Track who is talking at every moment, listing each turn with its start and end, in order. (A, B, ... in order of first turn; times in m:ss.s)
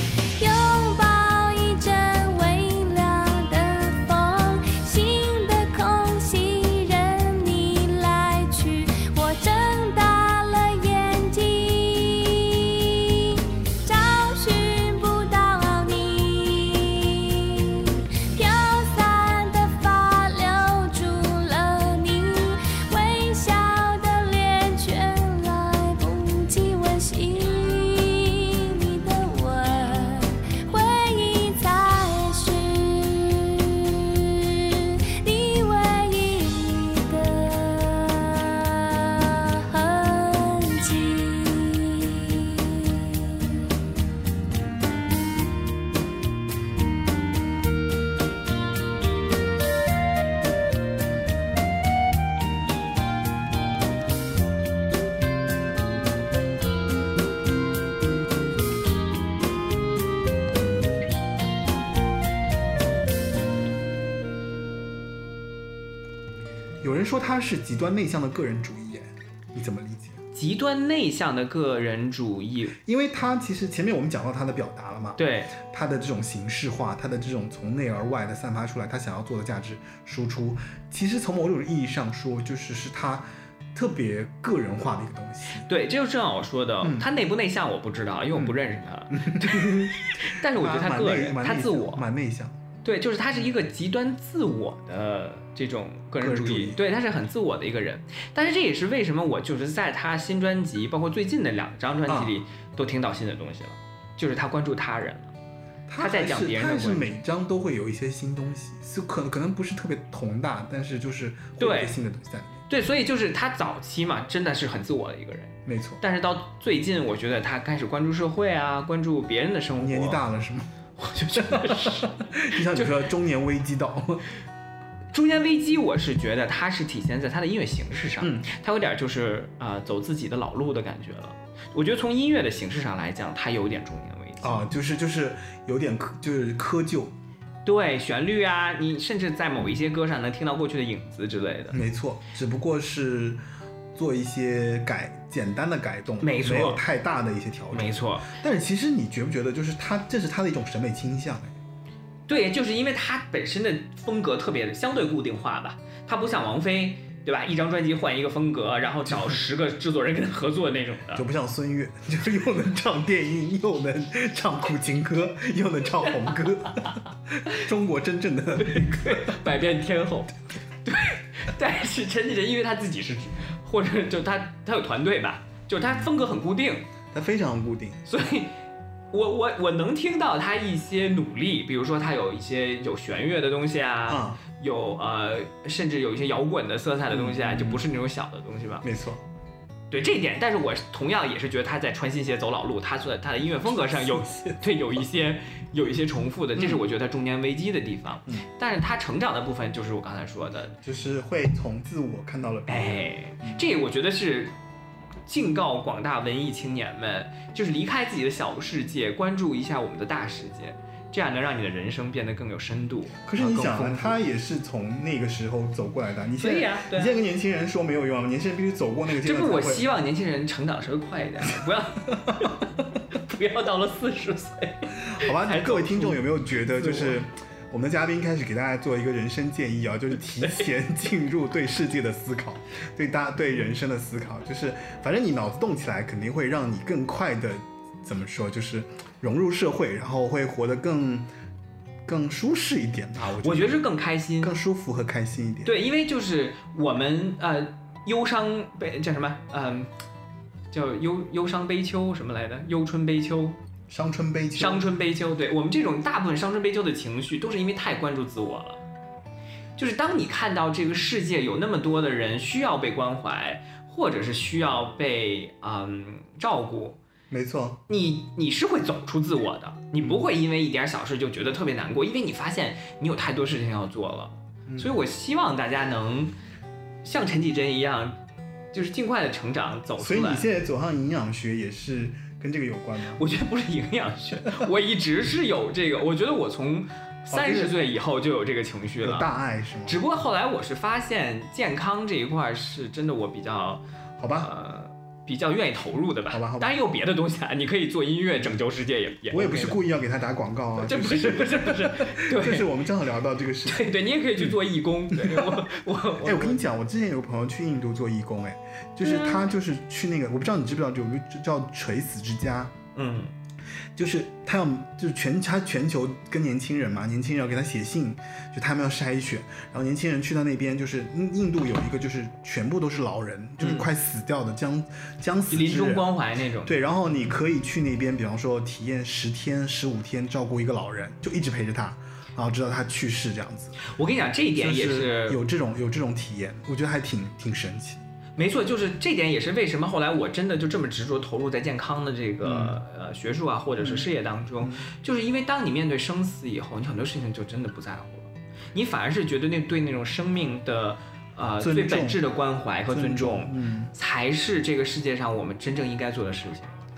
0:00.4-0:43.6 A
1:06.8-1:10.2 B
1:10.3-1:12.8 C
1:12.8-1:25.7 B
1:15.2-1:15.5 C
1:25.6-1:32.0 C
1:26.8-1:27.1 B
1:29.1-1:32.6 B
1:32.8-1:45.3 C
1:36.2-1:36.8 B
1:42.1-1:42.4 B
1:45.9-1:52.6 B
1:46.0-1:47.1 C
1:51.6-1:52.0 C
1:52.7-2:00.2 C
1:55.6-1:56.0 B
1:59.8-2:00.7 B
2:01.0-2:03.0 C
2:01.3-2:04.3 B
2:05.1-2:14.6 C
2:08.2-2:08.5 B
2:14.4-2:17.1 B
2:17.6-2:21.8 C
2:21.7-2:23.4 B
2:23.9-2:31.6 B
2:26.2-2:26.8 C
2:27.7-2:28.3 C
2:32.3-2:41.2 C
2:39.1-2:39.4 B
2:41.1-2:49.4 B
2:48.6-2:56.9 C
2:57.1-2:58.0 B
2:58.1-2:58.5 C
2:59.1-3:08.8 C
3:04.1-3:04.4 B
3:07.1-3:07.9 B
3:08.8-3:09.2 B
3:09.9-3:20.7 C
3:13.6-3:14.7 B
3:16.6-3:16.8 B
3:20.8-3:23.6 B
3:22.7-3:24.5 C
3:25.3-3:34.2 C
3:33.3-3:39.8 B
3:36.4-3:37.2 C
3:39.2-3:47.2 C
3:42.3-3:42.5 B
3:45.1-4:01.3 B
3:50.3-3:50.6 C
4:02.0-4:03.8 B
4:03.4-4:04.5 C
4:04.4-4:05.7 B
4:05.6-4:09.9 C
4:10.7-4:13.6 C
4:13.9-4:14.9 B
4:14.6-4:18.8 C
4:19.8-4:27.0 C
4:27.3-4:27.8 B
4:27.9-4:36.3 C
4:30.0-4:30.2 B
4:34.7-4:35.0 B
4:37.0-4:38.2 C
4:38.7-4:40.5 C
4:40.0-4:43.2 B
4:43.2-4:49.3 C
4:44.5-4:44.7 B
4:47.3-4:47.8 B
4:49.0-4:50.0 B
4:49.9-4:53.8 C
4:54.2-4:54.5 B
4:54.4-4:59.8 C
4:56.3-4:56.7 B
4:59.3-5:04.5 B
5:00.8-5:02.7 C
5:03.6-5:06.6 C
5:05.1-5:05.6 B
5:06.2-5:12.8 B
5:09.0-5:09.5 C
5:12.9-5:13.3 C
5:14.0-5:26.1 B
5:23.6-5:23.9 C
5:25.5-5:26.8 C
5:26.6-5:33.8 B
5:33.8-5:35.4 C
5:34.6-5:38.0 B
5:38.4-5:56.7 C
5:42.4-5:42.8 B
5:43.8-5:44.8 B
5:51.6-5:52.2 B
5:52.9-5:53.9 B